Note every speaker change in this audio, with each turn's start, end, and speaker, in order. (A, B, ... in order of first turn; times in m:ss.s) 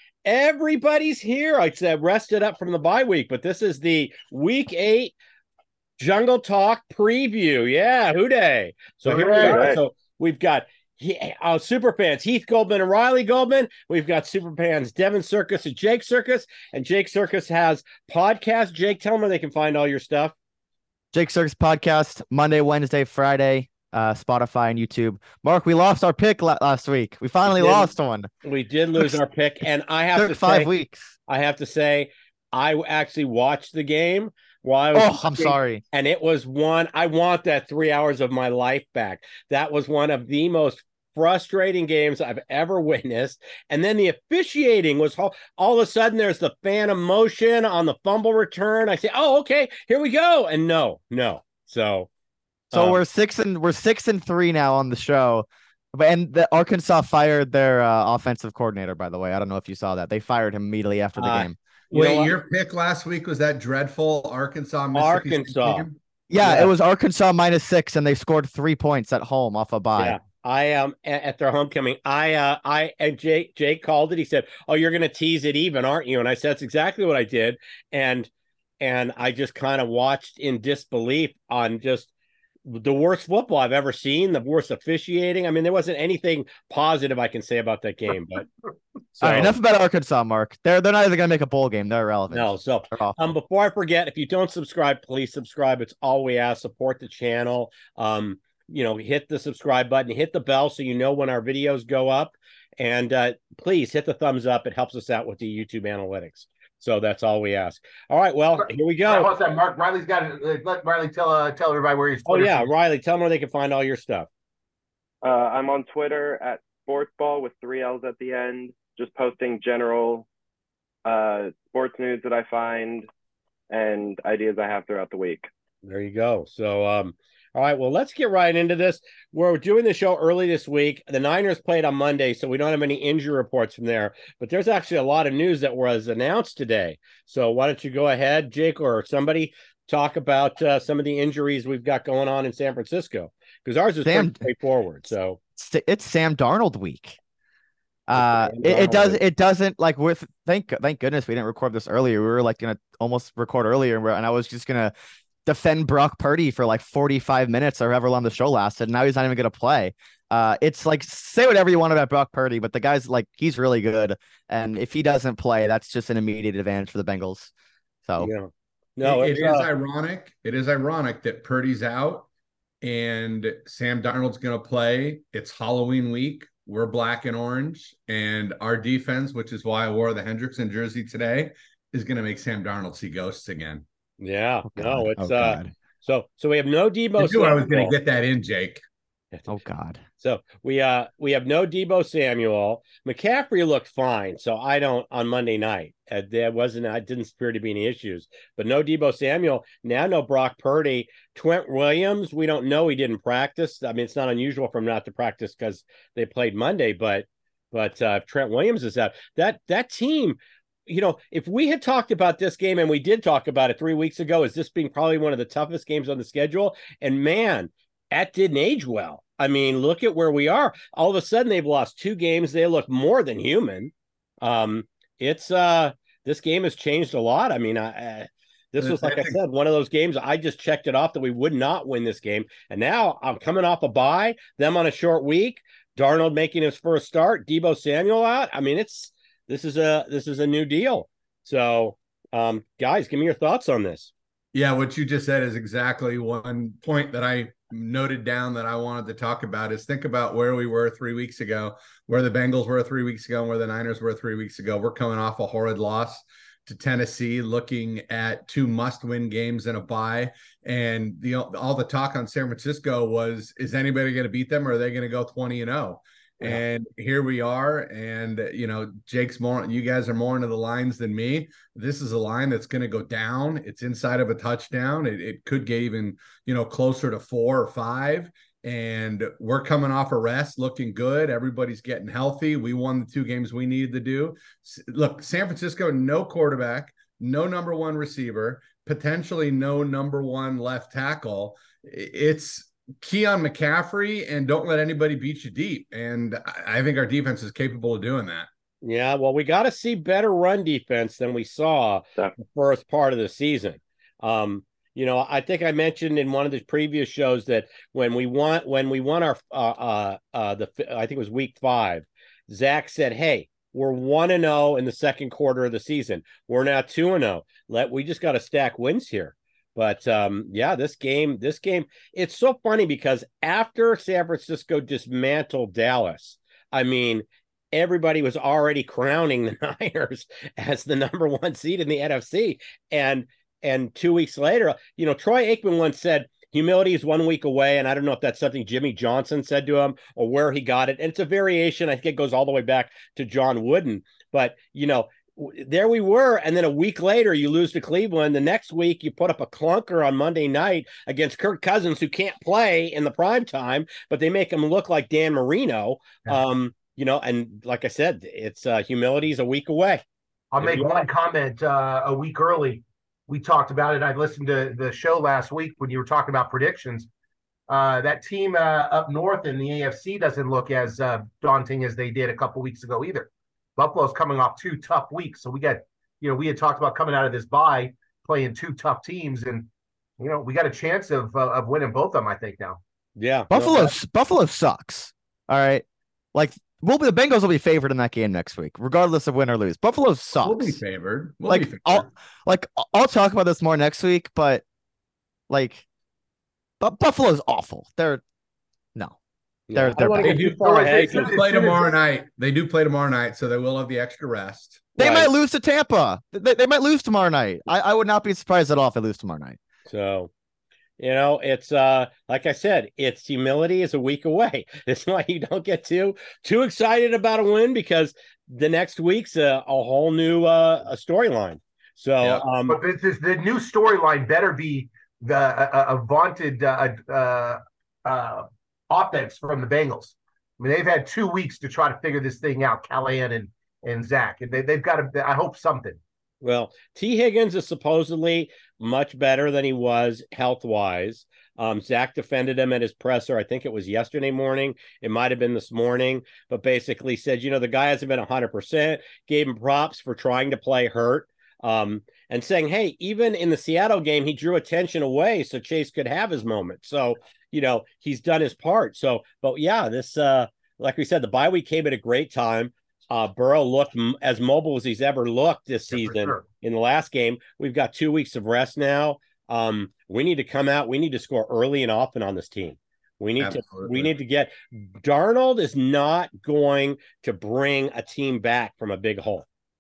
0:00.2-0:05.1 A
0:06.0-0:20.3 A
0:09.1-0:09.7 B
0:09.4-0:09.8 C
0:21.1-0:28.3 D
0:27.5-0:27.9 A
0:28.4-0:30.7 A
0:30.1-0:31.1 D
0:31.3-0:52.1 A
0:34.9-0:35.8 D
0:52.7-0:53.0 A
0:52.7-1:01.6 D
1:01.2-1:02.4 A
1:01.9-1:06.0 E
1:04.9-1:05.9 A
1:06.3-1:10.2 D
1:06.4-1:06.7 A
1:10.0-1:22.1 A
1:22.6-1:28.5 A
1:29.1-1:29.5 A
1:29.2-1:33.2 D
1:32.3-1:49.3 A
1:48.6-1:52.7 B
1:52.3-1:54.3 A
1:55.2-2:00.3 C
2:01.0-2:03.1 C
2:03.7-2:05.5 C
2:05.8-2:25.4 A
2:24.0-2:24.4 D
2:25.6-2:27.2 D
2:28.1-2:34.9 D
2:28.1-2:29.2 A
2:35.4-2:47.5 D
2:48.0-2:48.3 D
2:48.2-2:49.7 A
2:49.0-2:52.3 E
2:52.8-3:03.8 E
3:04.2-3:07.9 A
3:04.7-3:05.7 D
3:07.2-3:08.8 E
3:09.5-3:10.0 D
3:10.2-4:04.1 A
3:48.8-3:49.4 E
4:04.5-4:58.5 E
4:58.8-6:00.0 A
6:00.5-6:07.1 B
6:00.6-6:01.0 A
6:07.7-6:22.8 B
6:23.2-6:23.9 A
6:23.5-6:30.8 D
6:30.4-6:32.1 E
6:31.5-6:34.6 D
6:35.5-6:35.8 D
6:36.8-6:38.2 D
6:39.7-6:41.4 A
6:39.7-6:40.4 D
6:40.2-6:45.0 E
6:40.3-6:41.9 B
6:45.0-6:45.3 A
6:45.0-6:49.6 D
6:49.9-6:50.3 A
6:51.0-7:02.8 A
7:02.7-7:16.0 B
7:16.4-7:59.5 A
7:45.9-7:46.4 B
7:53.4-7:54.1 E